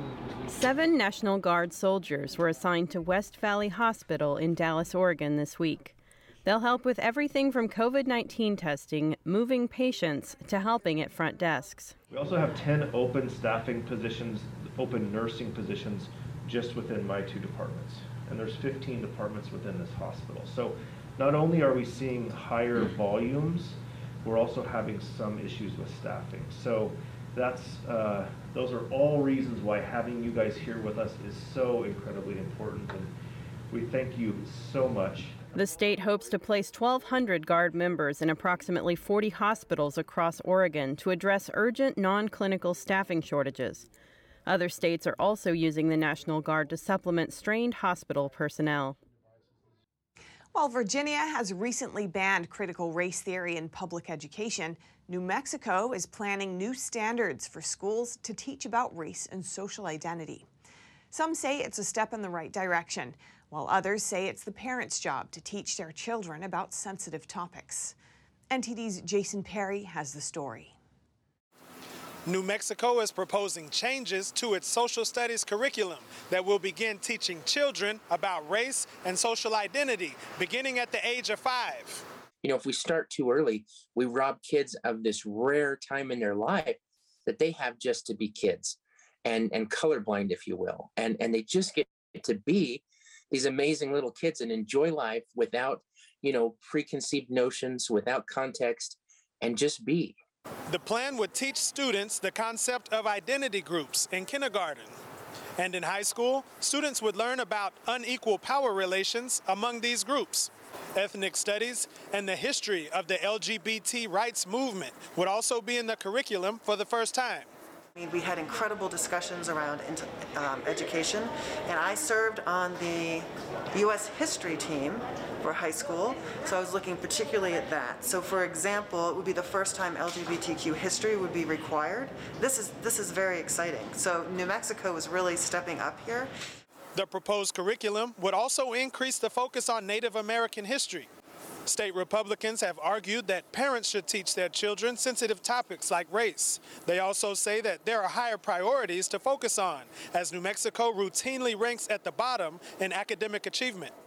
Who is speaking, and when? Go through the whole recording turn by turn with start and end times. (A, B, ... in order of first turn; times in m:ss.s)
0:00.5-0:11.9 A
0:12.1-0:33.1 B
0:33.7-0:35.4 B
0:35.5-0:43.9 A
0:44.5-0:49.0 A
0:50.5-1:00.5 C
1:01.1-1:08.0 C
1:08.5-1:10.8 C
1:12.2-1:22.0 D
1:22.4-1:40.2 E
1:40.7-1:45.0 D
1:45.6-1:57.5 D
1:58.0-2:16.3 F
2:16.9-2:21.1 D
2:21.6-2:33.9 D